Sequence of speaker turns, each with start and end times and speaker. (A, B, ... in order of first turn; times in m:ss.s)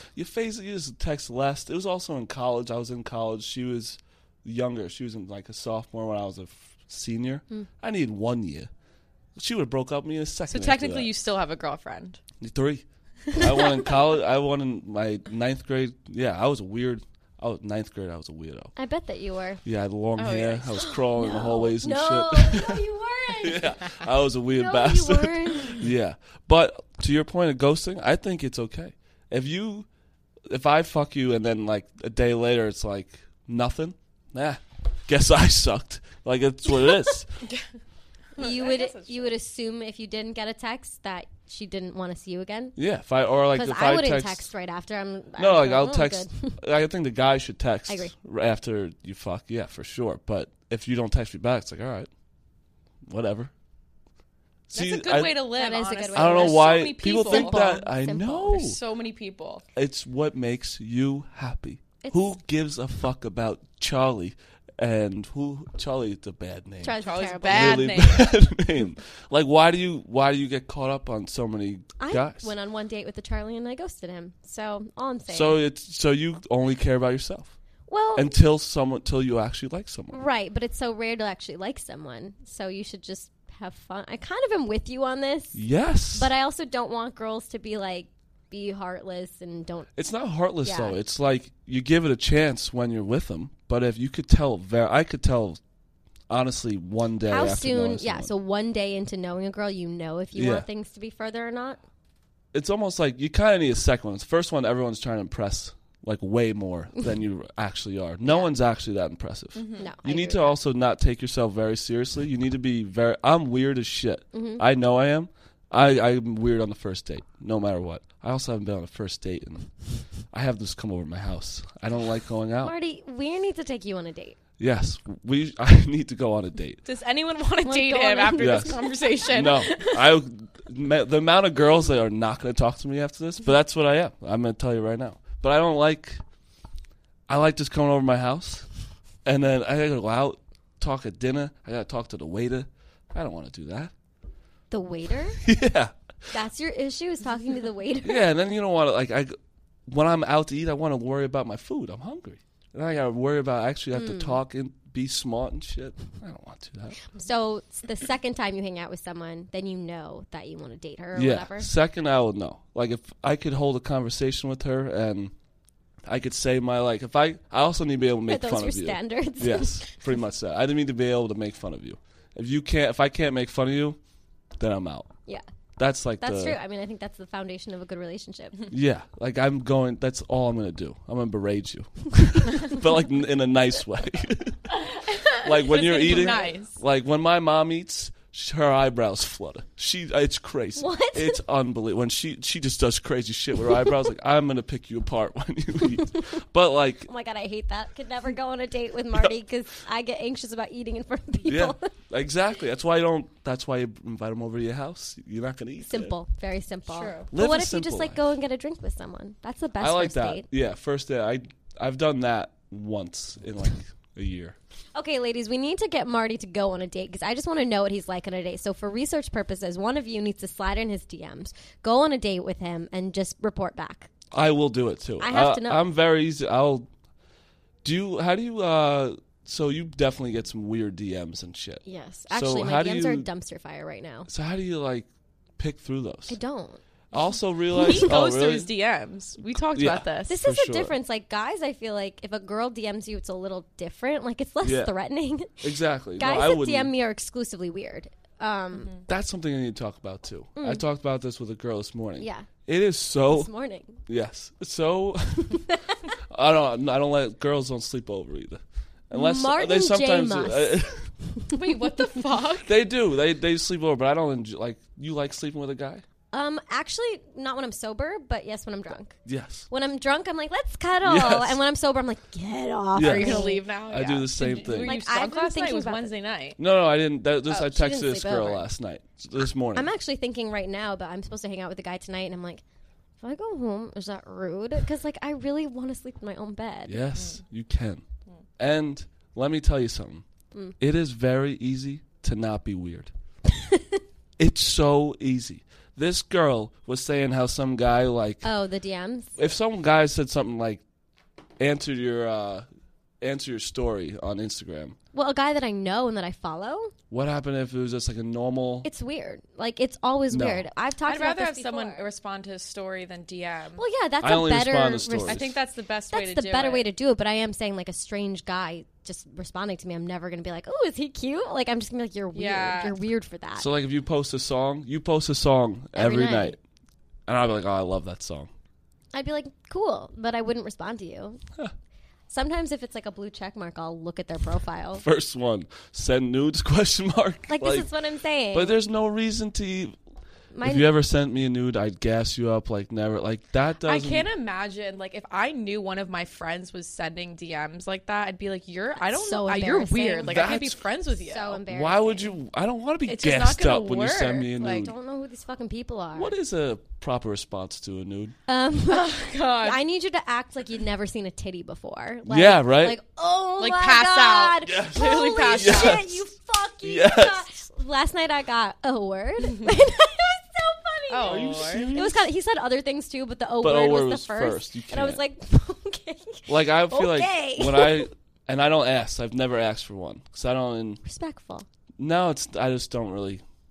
0:00.1-0:08.7 A
0:09.4-0:11.1 A
0:10.5-0:12.2 B
0:12.4-0:18.7 A
0:18.8-0:19.6 C
0:19.6-0:22.8 A
0:20.2-0:20.8 B
0:20.8-0:25.8 C
0:23.4-0:29.9 A
0:30.5-0:37.3 A
0:38.3-0:39.4 B
0:38.4-0:42.8 C
0:42.8-0:44.5 A
0:43.5-0:46.6 C
0:45.4-0:52.1 A
0:47.9-0:48.1 C
0:53.0-0:53.5 A
0:54.7-0:55.5 A
0:54.7-0:57.8 B
0:55.1-0:58.6 C
0:56.1-0:58.8 A
0:58.5-0:59.6 B
0:59.8-1:12.5 A
1:02.0-1:02.3 C
1:06.8-1:08.0 C
1:07.0-1:08.3 B
1:12.0-1:15.6 C
1:15.3-1:17.6 A
1:17.9-1:18.3 C
1:18.1-1:20.2 A
1:20.1-1:25.6 C
1:25.5-1:26.3 A
1:26.1-1:29.9 C
1:30.0-1:35.6 A
1:30.6-1:31.0 C
1:36.3-1:38.3 A
1:37.3-1:41.8 C
1:40.4-1:40.6 A
1:42.5-2:02.7 A
1:48.2-1:48.5 C
1:49.5-1:49.9 B
1:49.8-1:50.6 C
1:54.3-1:54.6 C
2:02.6-2:04.4 C
2:04.6-2:06.8 A
2:06.8-2:10.2 B
2:07.6-2:08.8 C
2:08.4-2:16.2 A
2:17.3-2:18.7 A
2:19.2-2:23.9 A
2:24.7-2:25.4 C
2:25.4-2:25.9 A
2:26.3-2:28.3 C
2:28.0-2:29.3 A
2:29.9-2:37.0 A
2:33.9-2:34.4 C
2:37.1-2:41.7 C
2:41.1-2:45.3 A
2:46.1-2:54.0 A
2:48.3-2:50.0 C
2:54.6-2:55.1 A
2:55.8-2:56.6 A
2:56.2-2:58.7 C
2:58.7-3:04.6 A
3:04.9-3:06.8 B
3:05.4-3:17.1 A
3:05.9-3:06.5 C
3:10.8-3:11.4 C
3:17.1-3:21.8 C
3:21.4-3:26.1 A
3:25.8-3:30.4 C
3:26.9-3:27.3 B
3:27.3-3:28.2 A
3:29.8-3:34.6 A
3:34.9-3:44.1 C
3:44.3-3:46.9 A
3:45.2-3:45.8 C
3:47.8-3:53.3 A
3:51.8-3:54.3 C
3:54.3-3:55.1 A
3:55.6-3:56.4 A
3:56.3-3:56.8 C
3:57.1-3:58.7 A
3:57.7-4:00.3 B
3:57.8-3:58.1 C
3:59.8-4:00.9 A
4:00.3-4:09.0 C
4:04.6-4:04.9 A
4:05.6-4:06.9 A
4:09.1-4:13.5 A
4:10.6-4:10.8 C
4:12.2-4:12.5 C
4:13.3-4:14.0 C
4:14.1-4:15.6 A
4:15.6-4:15.9 C
4:16.3-4:21.1 A
4:19.1-4:21.7 C
4:21.5-4:22.8 B
4:22.6-4:26.0 A
4:26.3-4:29.2 C
4:29.2-4:29.7 A
4:29.7-4:33.6 C
4:31.0-4:31.6 A
4:32.9-4:35.0 A
4:33.0-4:36.6 B
4:34.8-4:36.1 C
4:36.6-4:39.9 A
4:37.5-4:38.7 C
4:39.7-4:42.6 C
4:43.2-4:47.0 C
4:46.9-4:48.0 A
4:47.2-4:47.4 B
4:48.6-4:50.2 A
4:50.8-4:53.1 A
4:54.4-4:58.5 A
4:58.4-4:59.4 C
4:59.4-5:00.8 A
5:01.6-5:02.7 A
5:03.2-5:05.0 A
5:05.1-5:06.9 C
5:07.1-5:08.9 A
5:08.8-5:12.0 C
5:10.3-5:10.6 A
5:11.0-5:13.8 B
5:13.8-5:15.4 C
5:14.2-5:15.6 A
5:15.3-5:16.9 B
5:16.1-5:23.7 C
5:22.3-5:23.0 B
5:23.6-5:26.6 A
5:25.9-5:26.6 C
5:27.3-5:28.5 A
5:29.1-5:31.4 C
5:32.3-5:35.0 C
5:34.9-5:37.9 A
5:37.5-5:38.8 C
5:38.5-5:40.0 A
5:40.5-5:40.9 C
5:40.6-5:44.2 A
5:43.8-5:51.6 B
5:49.1-5:52.3 C
5:50.2-5:50.8 A
5:51.7-5:54.9 A
5:53.1-5:54.9 B
5:54.6-5:56.3 C
5:56.1-5:58.3 A
5:58.5-6:18.1 C
5:58.9-5:59.8 B
6:02.2-6:03.0 A
6:03.6-6:06.2 B
6:04.6-6:06.2 A
6:06.8-6:07.5 A
6:11.1-6:12.0 B
6:11.2-6:12.3 A
6:13.6-6:15.2 A
6:16.5-6:21.0 A
6:21.0-6:21.6 C
6:22.0-6:23.4 A